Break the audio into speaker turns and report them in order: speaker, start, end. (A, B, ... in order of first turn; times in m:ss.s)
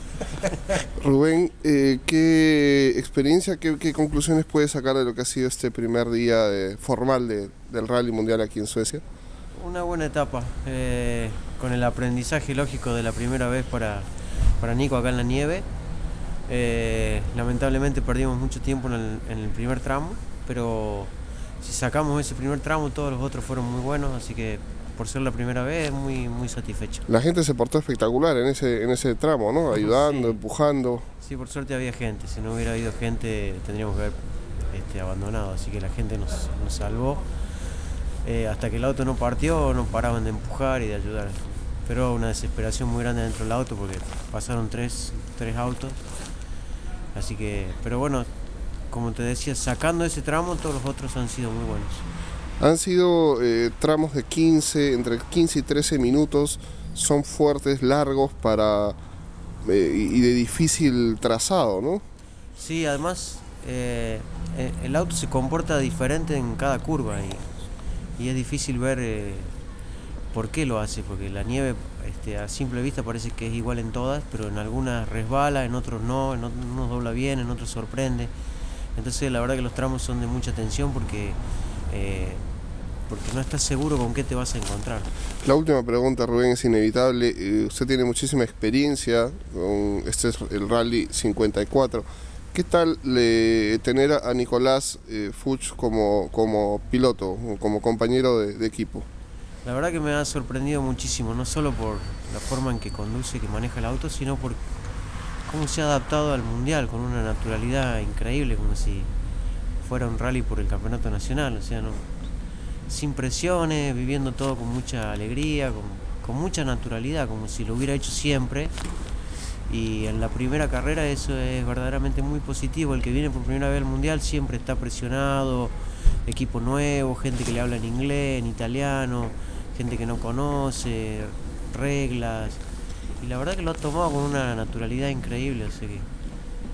0:01.0-0:09.0 A
0:09.5-0:15.7 B
0:16.5-0:27.1 B
0:27.1-0:31.0 A
0:29.8-0:30.4 B
0:31.2-0:37.3 B
0:38.2-0:46.0 B
0:47.1-0:48.3 B
0:48.9-0:52.1 B
0:52.6-0:59.0 A
0:59.6-1:02.0 A
1:02.6-1:07.5 B
1:08.2-1:09.6 B
1:10.3-1:18.3 B
1:19.0-1:22.4 B
1:23.1-1:25.1 B
1:25.4-1:39.1 A
1:39.6-1:44.7 B
1:45.5-1:49.1 B
1:49.8-1:52.1 B
1:52.9-1:58.8 B
1:59.7-2:12.6 B
2:13.2-2:16.1 B